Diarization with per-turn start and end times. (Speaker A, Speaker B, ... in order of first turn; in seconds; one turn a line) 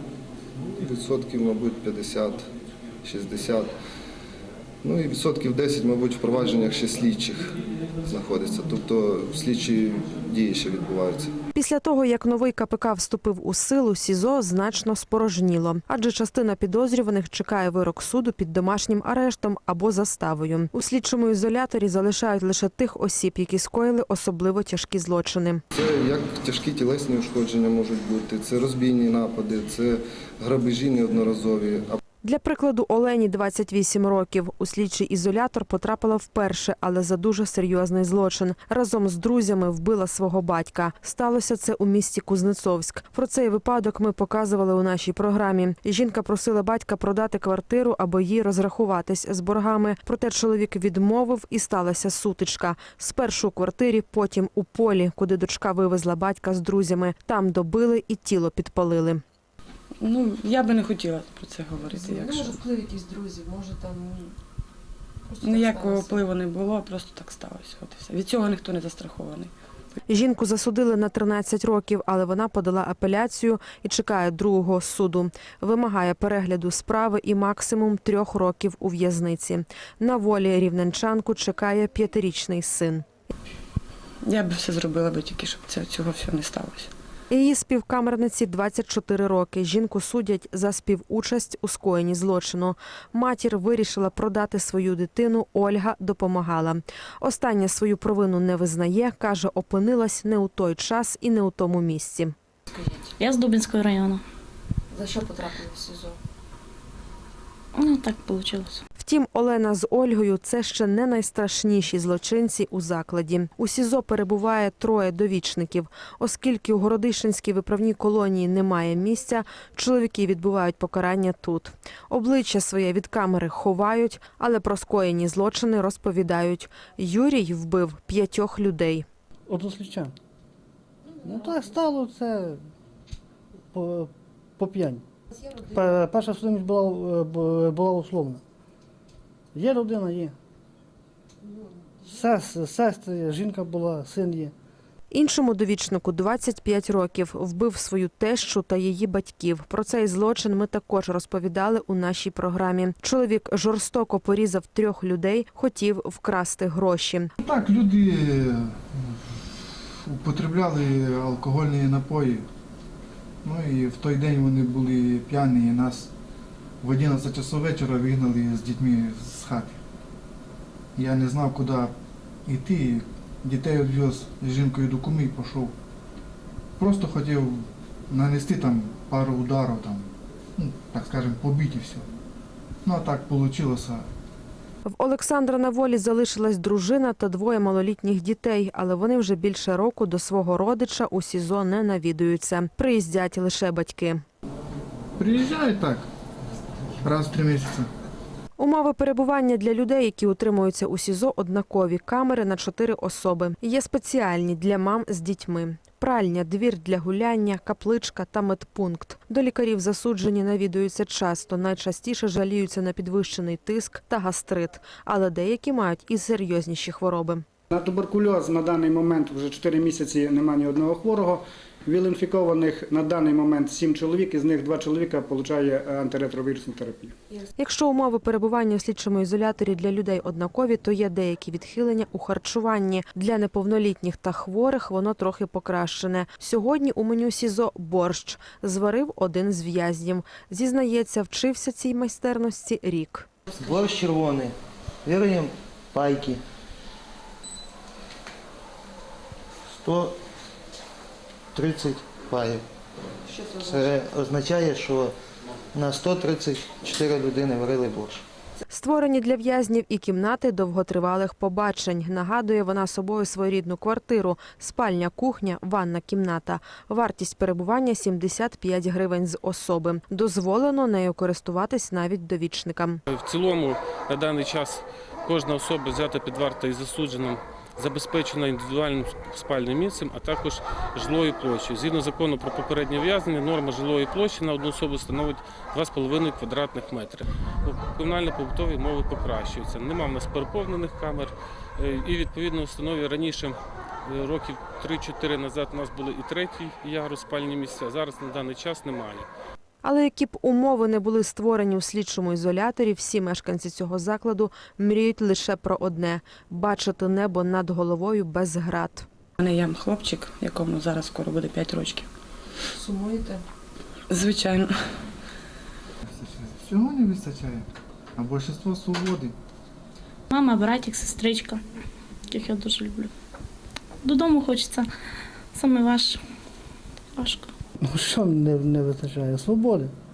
Speaker A: 0.8-2.5
Speaker A: 3.0-3.8
Speaker A: 4.8-11.3
Speaker B: 11.6-25.6
Speaker A: 25.7-32.0
Speaker B: 32.2-59.2
Speaker C: 60.0-62.6
Speaker D: 61.9-64.3
Speaker D: 65.3-66.2
Speaker C: 65.4-69.5
Speaker B: 70.1-83.0
Speaker C: 84.2-86.9
Speaker B: 87.3-102.3
Speaker E: 103.2-104.2
Speaker D: 104.9-106.2
Speaker E: 107.8-108.8
Speaker B: 109.0-129.1
Speaker F: 129.5-130.1
Speaker F: 131.2-132.6
Speaker F: 133.7-138.4
Speaker F: 139.5-140.3
Speaker F: 142.0-144.5
Speaker B: 145.1-157.3
Speaker G: 157.4-159.4
Speaker G: 160.0-162.5
Speaker G: 163.4-166.1
Speaker G: 166.8-169.8
Speaker G: 171.0-171.9
Speaker G: 172.5-175.7
Speaker G: 176.8-182.1
Speaker G: 182.8-184.1
Speaker B: 184.9-194.2
Speaker G: 195.2-196.1
Speaker G: 197.0-197.9
Speaker B: 198.6-217.4
Speaker H: 217.7-227.2
Speaker B: 227.6-243.3
Speaker I: 243.6-246.4
Speaker I: 249.7-250.2
Speaker I: 251.6-252.7
Speaker I: 253.5-255.1
Speaker I: 255.7-258.2
Speaker B: 258.7-273.0
Speaker J: 273.1-299.3
Speaker B: 299.8-309.1
Speaker C: 309.4-312.1
Speaker D: 312.8-313.4
Speaker C: 314.1-315.0
Speaker G: 316.1-319.4
Speaker E: 320.3-321.6
Speaker E: 322.3-323.1
Speaker E: 324.0-324.9
Speaker E: 325.5-326.2
Speaker E: 327.2-327.5
Speaker F: 327.8-329.9